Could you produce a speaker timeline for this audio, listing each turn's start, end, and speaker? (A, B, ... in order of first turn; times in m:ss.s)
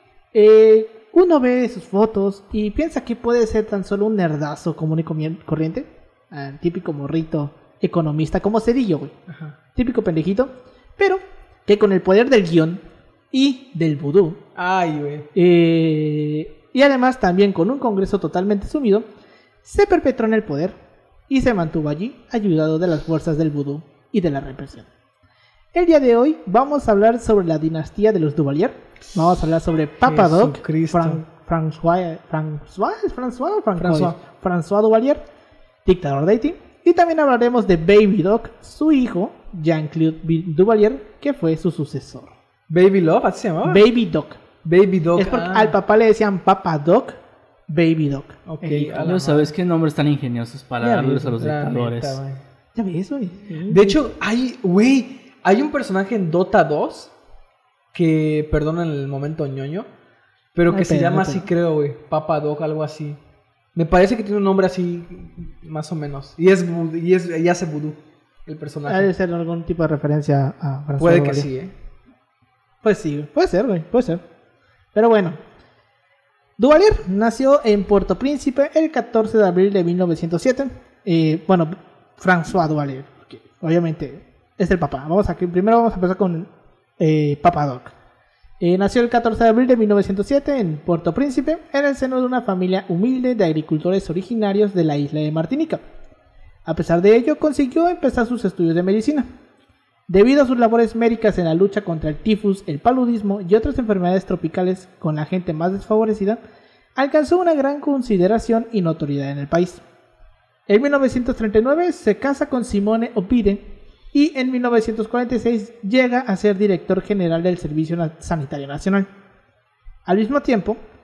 0:00.3-0:09.1 A
0:09.3-0:09.6 B
0:09.7-0:14.4 A
0:14.5-0:15.3 B
0:15.3-0:19.1 A
0:19.6-0:20.8 A
0:21.3-0:24.9 A
0:25.7-0:35.2 A
0:30.0-0:31.2 B
0:33.8-0:34.1 B
0:35.8-0:42.4 A
0:42.7-0:43.9 B
0:43.6-0:44.4 A
0:44.6-0:45.8 B
0:45.2-0:49.3 A
0:48.4-0:49.5 B
0:49.0-0:52.2 C
0:50.8-0:52.4 B
0:52.7-0:54.0 A
0:53.7-0:57.1 B
0:57.9-0:59.9 B
1:00.5-1:03.2 B
1:00.7-1:01.5 A
1:03.7-1:09.1 B
1:08.9-1:11.5 A
1:11.0-1:11.7 B
1:12.8-1:14.2 A
1:14.9-1:15.4 A
1:16.6-1:27.9 A
1:28.6-1:35.8 A
1:36.6-1:39.3 A
1:40.1-1:46.4 A
1:47.0-1:49.8 A
1:50.7-1:59.1 A
2:00.0-2:00.8 A